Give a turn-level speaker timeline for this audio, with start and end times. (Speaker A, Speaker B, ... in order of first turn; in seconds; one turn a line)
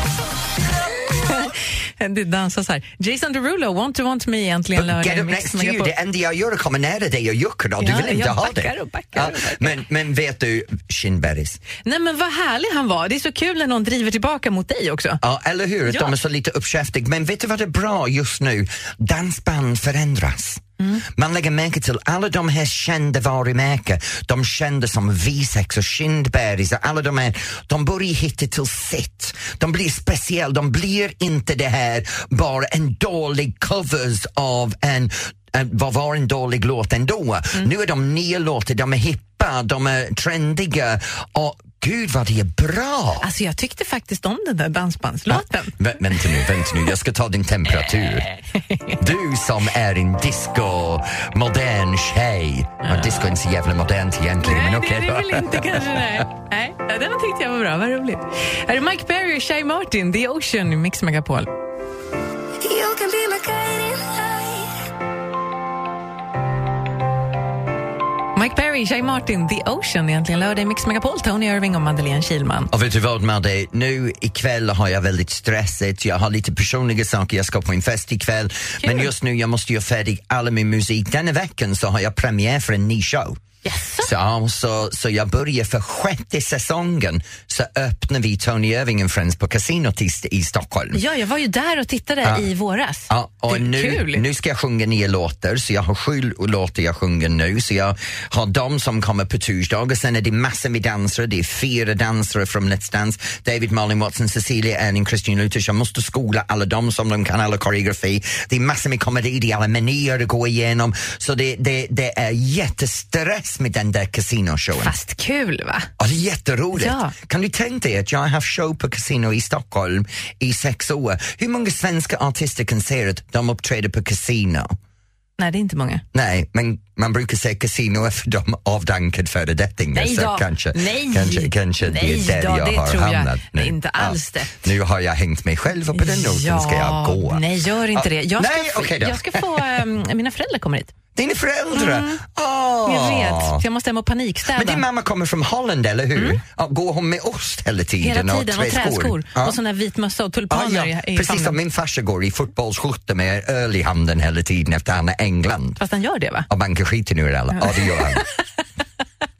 Speaker A: 1.2-5.9
Speaker B: 4.7-11.6
Speaker A: 7.8-9.8
Speaker A: 11.8-15.2
Speaker B: 15.2-43.3
Speaker A: 15.9-16.1
Speaker A: 43.2-45.8
Speaker B: 45.3-48.3
Speaker A: 48.0-49.0
Speaker B: 49.0-56.0
Speaker A: 52.9-53.1
Speaker A: 54.4-61.5
Speaker C: 62.6-64.7
Speaker A: 68.3-72.7
Speaker B: 72.7-83.4
Speaker A: 78.8-79.1
Speaker A: 83.6-84.1
Speaker B: 84.0-91.0
Speaker A: 90.9-94.2
Speaker B: 93.1-114.9
Speaker A: 114.8-115.9
Speaker B: 116.0-124.7
Speaker A: 116.7-117.1
Speaker A: 125.4-126.0
Speaker B: 126.1-139.5
Speaker A: 129.9-134.6
Speaker A: 135.9-140.9
Speaker B: 141.1-143.6
Speaker A: 141.7-142.2
Speaker A: 142.8-144.8
Speaker B: 144.5-149.6
Speaker A: 146.2-146.4
Speaker A: 148.0-151.6
Speaker B: 150.5-155.8
Speaker A: 155.8-156.5
Speaker B: 156.5-158.2
Speaker A: 157.6-158.6